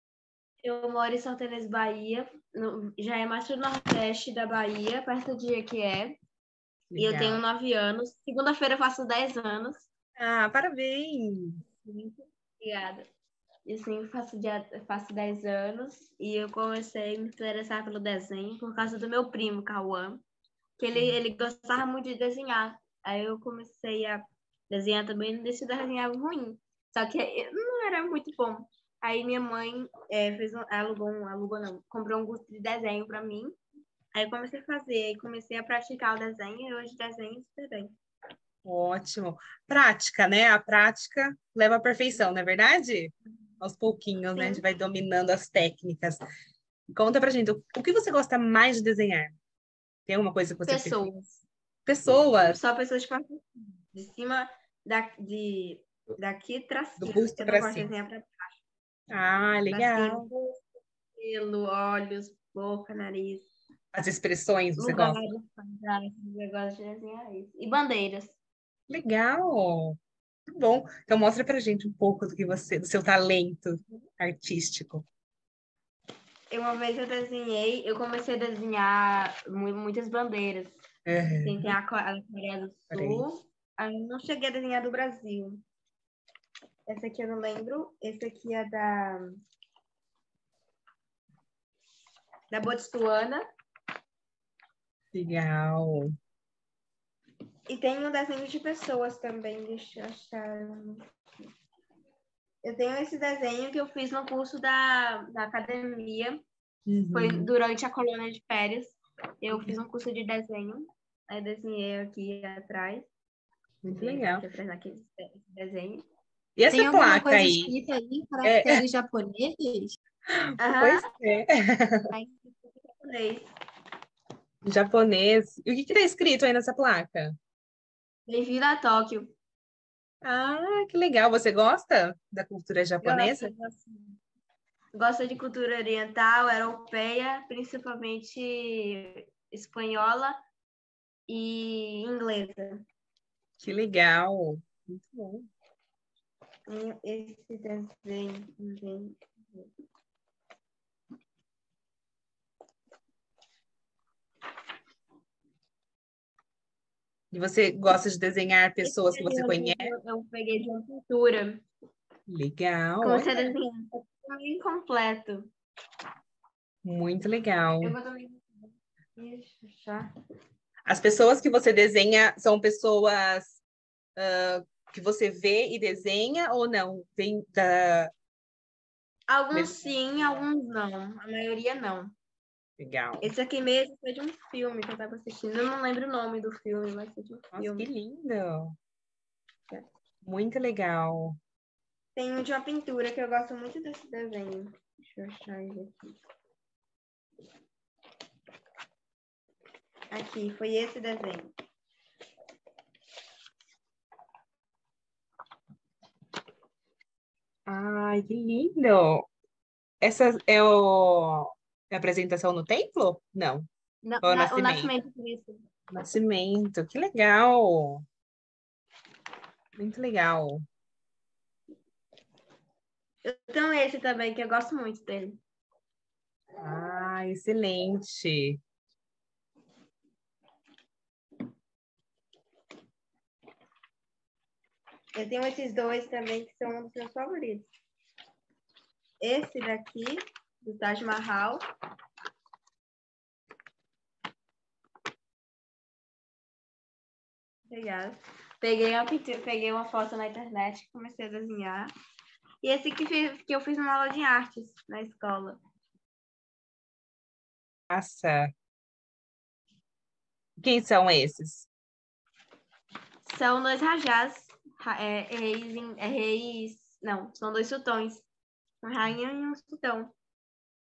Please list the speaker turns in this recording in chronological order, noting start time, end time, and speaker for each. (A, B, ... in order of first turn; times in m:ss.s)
0:00.6-0:06.2 A
0:06.9-0:07.4 B
0:07.0-0:09.9 A
0:10.2-0:11.6 B
0:11.7-0:13.1 A
0:13.6-0:20.2 A
0:20.8-0:33.5 A
0:34.1-0:37.9 A
0:38.6-0:46.2 B
0:44.3-0:44.6 A
0:46.9-0:49.3 B
0:50.1-0:51.1 B
0:50.6-0:51.4 A
0:51.9-0:52.6 B
0:52.4-0:58.6 A
0:57.0-0:57.9 B
0:59.1-1:00.3 B
0:59.7-1:00.6 A
1:01.2-1:03.5 A
1:03.9-1:05.2 B
1:04.8-1:08.4 A
1:08.9-1:10.0 B
1:10.6-1:15.0 B
1:16.5-1:20.8 A
1:21.1-1:21.7 B
1:21.4-1:25.6 A
1:22.9-1:23.2 B
1:26.9-1:29.4 A
1:32.5-1:33.4 A
1:35.1-1:36.1 B
1:37.7-1:41.0 A
1:42.6-1:46.4 A
1:46.9-1:47.5 B
1:47.1-1:53.1 A
1:53.8-1:54.4 B
1:53.9-1:56.1 A
1:56.6-1:57.7 B
1:56.7-2:00.0 C
1:58.4-1:58.7 B
2:00.6-2:01.1 A
2:00.8-2:02.0 B
2:02.1-2:03.5 A
2:04.6-2:07.4 B
2:08.3-2:09.3 A
2:10.2-2:13.5 B
2:13.0-2:14.0 A
2:14.9-2:20.4 A
2:21.3-2:22.8 A
2:23.6-2:25.4 B
2:26.7-2:29.7 A
2:37.3-2:39.9 B
2:38.8-2:41.6 A
2:42.3-2:43.5 B
2:43.0-2:45.5 A
2:46.8-2:47.9 B
2:47.8-2:50.1 A
2:50.9-2:53.6 B
2:54.2-2:58.1 B
2:59.3-3:02.1 A
3:02.8-3:03.3 B
3:03.2-3:07.9 A
3:07.5-3:08.8 B
3:10.2-3:11.4 B
3:12.2-3:16.1 A
3:20.1-3:21.5 A
3:27.7-3:29.3 B
3:30.0-3:33.7 B
3:34.0-3:35.6 A
3:34.2-3:34.9 B
3:35.9-3:38.0 B
3:39.8-3:40.6 B
3:43.2-3:45.4 A
3:46.6-3:48.6 B
3:55.2-3:57.7 A
3:59.2-4:01.6 A
4:07.7-4:11.9 A
4:12.6-4:15.6 A
4:17.9-4:18.5 B
4:20.6-4:21.7 B
4:23.2-4:28.2 A
4:28.8-4:30.1 A